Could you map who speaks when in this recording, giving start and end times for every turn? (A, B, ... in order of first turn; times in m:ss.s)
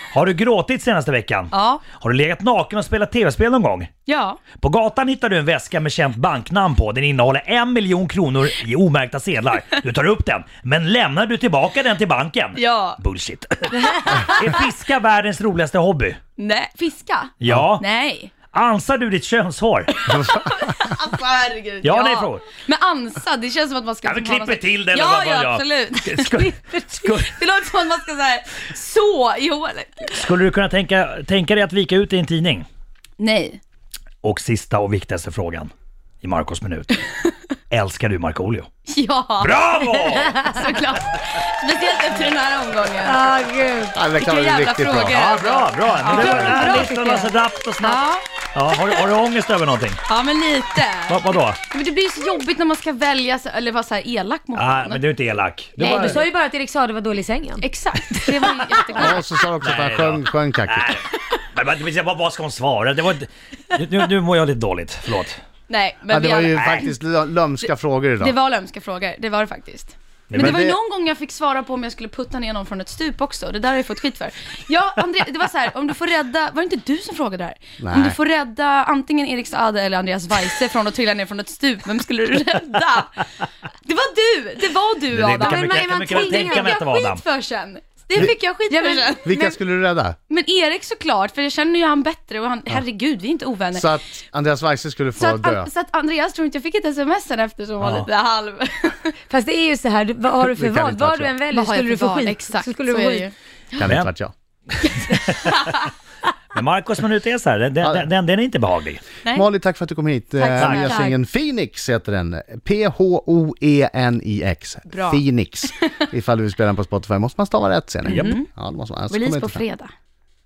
0:00.1-0:03.9 A
0:01.5-0:01.8 B
0:04.1-0:04.4 B
0:04.6-0:16.2 A
0:12.6-0:13.0 B
0:13.8-0:14.5 B
0:16.4-0:18.3 B
0:17.4-0:17.8 A
0:18.5-0:19.9 A
0:19.9-0:30.3 B
0:20.1-0:20.7 C
0:21.8-0:22.5 A
0:24.0-0:27.3 A
0:30.1-0:32.7 A
0:33.2-0:33.6 B
0:34.2-0:37.0 A
0:37.7-0:38.7 A
0:38.9-0:43.2 B
0:39.4-0:40.4 A
0:43.0-0:44.0 D
0:43.9-0:45.4 C
0:44.1-0:47.0 B
0:45.2-0:50.0 A
0:46.1-0:47.3 D
0:46.1-0:46.5 C
0:47.8-0:48.2 B
0:50.1-0:55.0 B
0:51.1-0:51.6 A
0:54.6-0:56.2 A
0:55.8-0:57.7 D
0:55.8-0:56.2 B
0:57.6-0:59.2 B
0:58.3-0:59.2 D
0:59.0-1:01.0 C
0:59.6-1:05.4 A
1:05.7-1:07.0 B
1:06.1-1:08.4 C
1:08.2-1:23.3 B
1:10.3-1:10.6 A
1:10.3-1:10.8 C
1:17.8-1:18.2 C
1:23.8-1:29.3 B
1:25.1-1:27.2 A
1:25.2-1:26.8 D
1:28.7-1:29.6 D
1:29.2-1:30.2 C
1:30.3-1:33.9 B
1:33.7-1:35.7 C
1:35.2-1:39.2 B
1:37.8-1:38.1 A
1:39.3-1:43.3 D
1:40.5-1:41.3 C
1:41.5-1:43.8 B
1:43.8-1:44.3 C
1:43.8-1:44.1 A
1:45.1-1:45.7 A
1:45.4-1:45.9 B
1:46.5-1:49.0 A
1:47.8-1:48.1 C
1:49.3-1:59.6 C
1:50.4-1:51.2 B
1:50.6-1:51.0 A
1:54.9-1:56.0 B
1:58.0-1:58.4 A
1:58.1-1:58.5 B
1:59.1-1:59.9 B